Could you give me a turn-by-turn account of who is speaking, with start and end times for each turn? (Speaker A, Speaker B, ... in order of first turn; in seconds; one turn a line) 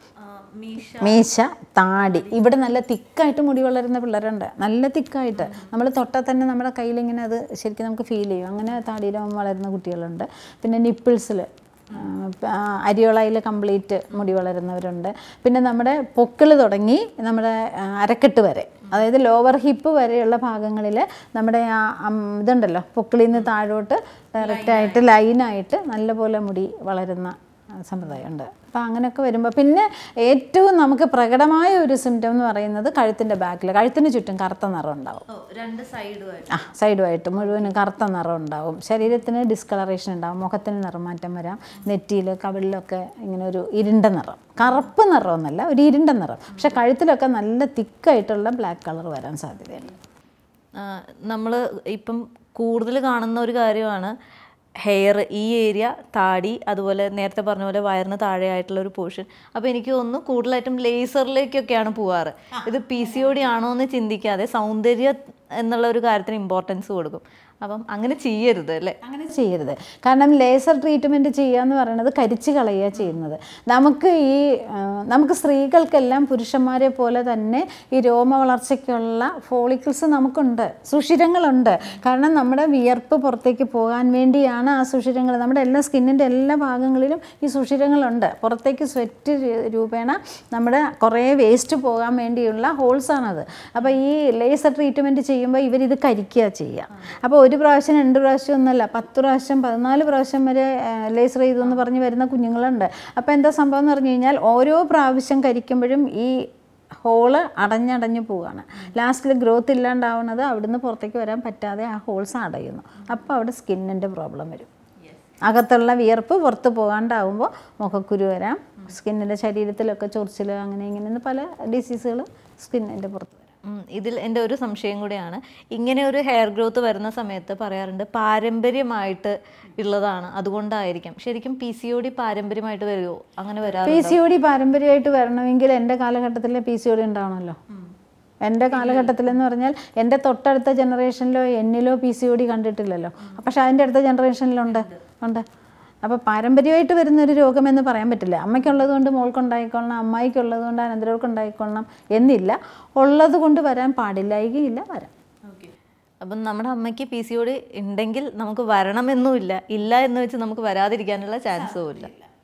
Speaker A: 0.2-1.3
Speaker B: 1.0-27.3
Speaker A: 1.9-2.6
Speaker A: 5.3-5.8
Speaker A: 24.4-25.1
Speaker B: 27.8-35.2
Speaker A: 35.3-36.6
Speaker B: 36.5-49.9
Speaker A: 37.4-37.8
Speaker A: 46.5-46.8
Speaker A: 50.8-54.1
Speaker A: 54.8-69.0
Speaker B: 62.6-63.5
Speaker B: 69.0-106.4
Speaker B: 107.0-114.7
Speaker B: 115.4-123.4
Speaker A: 123.6-134.2
Speaker B: 133.8-137.6
Speaker B: 138.4-145.4
Speaker A: 138.7-139.4
Speaker A: 143.2-143.4
Speaker A: 144.7-145.1
Speaker B: 146.0-155.1
Speaker A: 155.4-162.1
Speaker B: 161.6-162.3